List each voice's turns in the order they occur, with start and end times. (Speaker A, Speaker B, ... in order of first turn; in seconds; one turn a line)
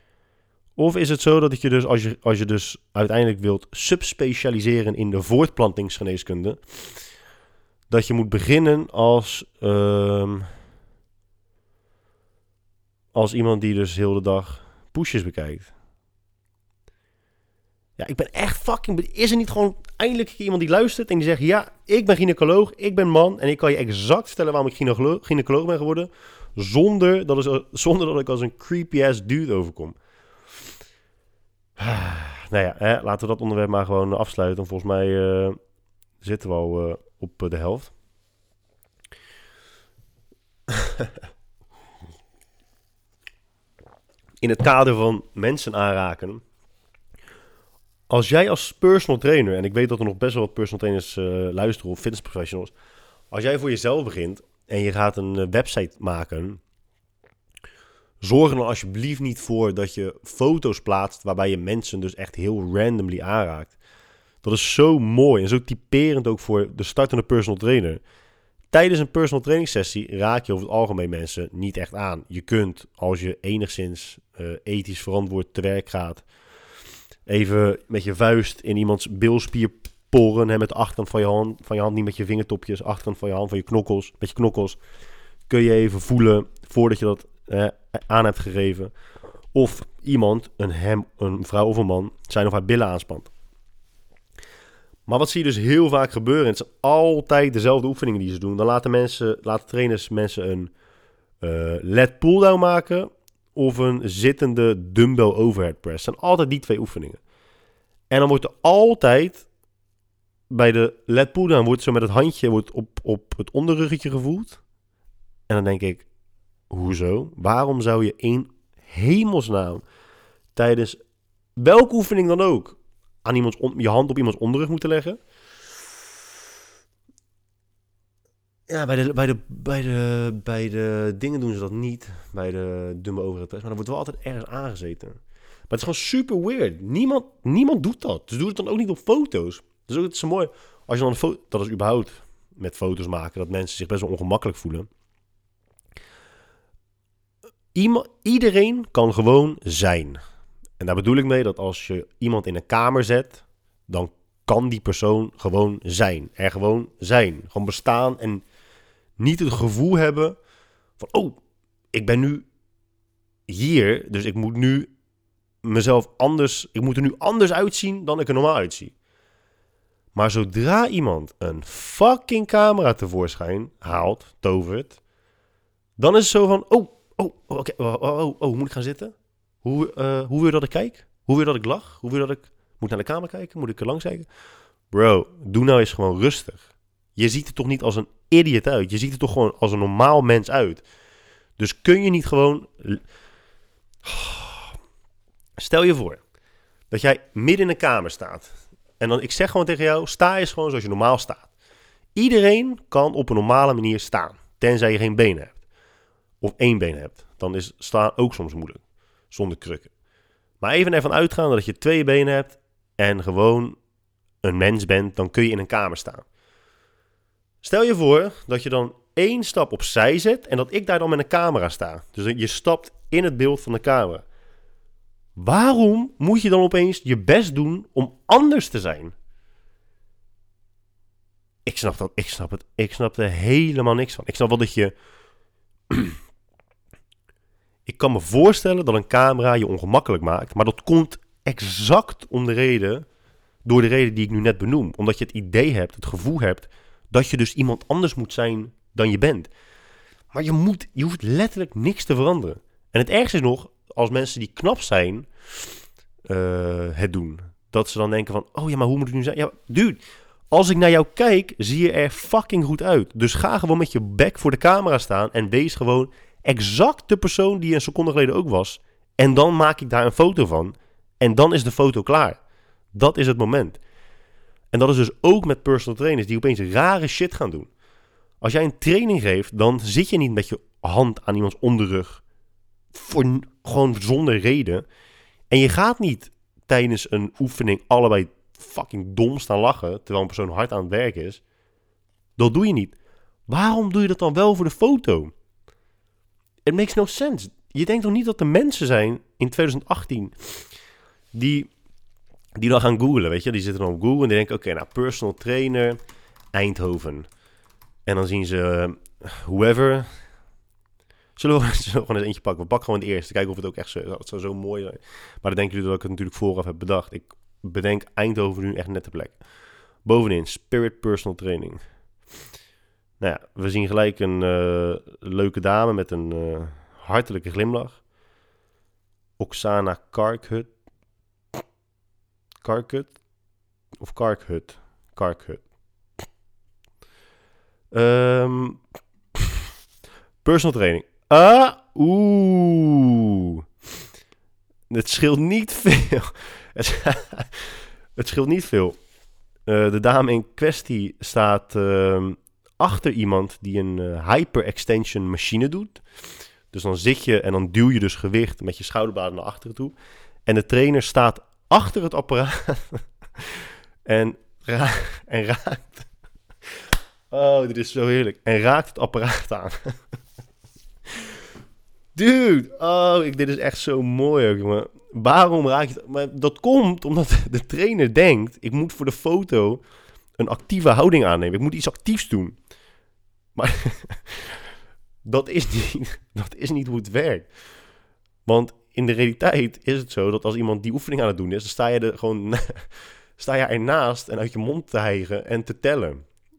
Speaker A: 0.8-6.6
Speaker A: 7.9-10.5
Speaker A: 13.1-15.7
Speaker A: 18.0-30.0
Speaker A: 31.8-35.6
Speaker A: 36.2-37.9
Speaker A: 40.7-41.1
Speaker A: 44.4-46.4
Speaker A: 48.1-52.7
Speaker A: 53.3-56.6
Speaker A: 58.2-63.8
Speaker A: 64.4-68.0
Speaker A: 68.7-76.3
Speaker A: 77.3-84.8
Speaker A: 85.5-88.9
Speaker A: 89.5-93.3
Speaker A: 95.1-100.7
Speaker A: 101.4-107.2
Speaker A: 108.1-109.5
Speaker A: 110.5-114.6
Speaker A: 115.5-116.1
Speaker A: 116.7-119.8
Speaker A: 120.5-121.0
Speaker A: 121.6-125.2
Speaker A: 128.7-135.2
Speaker A: 135.7-144.9
Speaker A: 147.7-150.2
Speaker A: 150.8-158.4
Speaker A: 159.2-160.4
Speaker A: 161.0-161.4
Speaker A: 161.9-162.5
Speaker A: 163.5-164.9
Speaker A: 165.6-168.9
Speaker A: 170.2-175.0
Speaker A: 176.0-184.3
Speaker A: 184.9-190.8
Speaker A: 191.6-193.0
Speaker A: 194.0-194.7
Speaker A: 195.6-196.2
Speaker A: 196.9-201.5
Speaker A: 202.2-205.6
Speaker A: 206.4-209.9
Speaker A: 210.6-213.8
Speaker A: 214.4-216.2
Speaker A: 217.6-224.2
Speaker A: 225.4-229.1
Speaker A: 231.7-234.9
Speaker A: 235.9-236.2
Speaker A: 237.9-243.1
Speaker A: 243.7-249.5
Speaker A: 250.3-255.3
Speaker A: 256.3-272.4
Speaker A: 272.9-273.8
Speaker A: 274.7-277.7
Speaker A: 278.4-282.2
Speaker A: 282.9-284.9
Speaker A: 285.5-291.4
Speaker A: 292.4-293.0
Speaker A: 293.5-295.3
Speaker A: 296.6-300.6
Speaker A: 301.3-301.7
Speaker A: 302.6-306.0
Speaker A: 306.5-307.3
Speaker A: 308.1-310.1
Speaker A: 311.4-319.4
Speaker A: 320.1-321.8
Speaker A: 323.2-328.0
Speaker A: 329.4-330.7
Speaker A: 332.6-333.1
Speaker A: 334.0-335.6
Speaker A: 337.9-338.8
Speaker A: 339.4-339.6
Speaker A: 340.4-343.6
Speaker A: 344.9-349.0
Speaker A: 349.7-356.0
Speaker A: 356.7-359.9
Speaker A: 360.5-366.1
Speaker A: 367.3-369.9
Speaker A: 372.1-379.8
Speaker A: 380.4-382.6
Speaker A: 383.6-384.6
Speaker A: 385.2-387.5
Speaker A: 388.5-396.2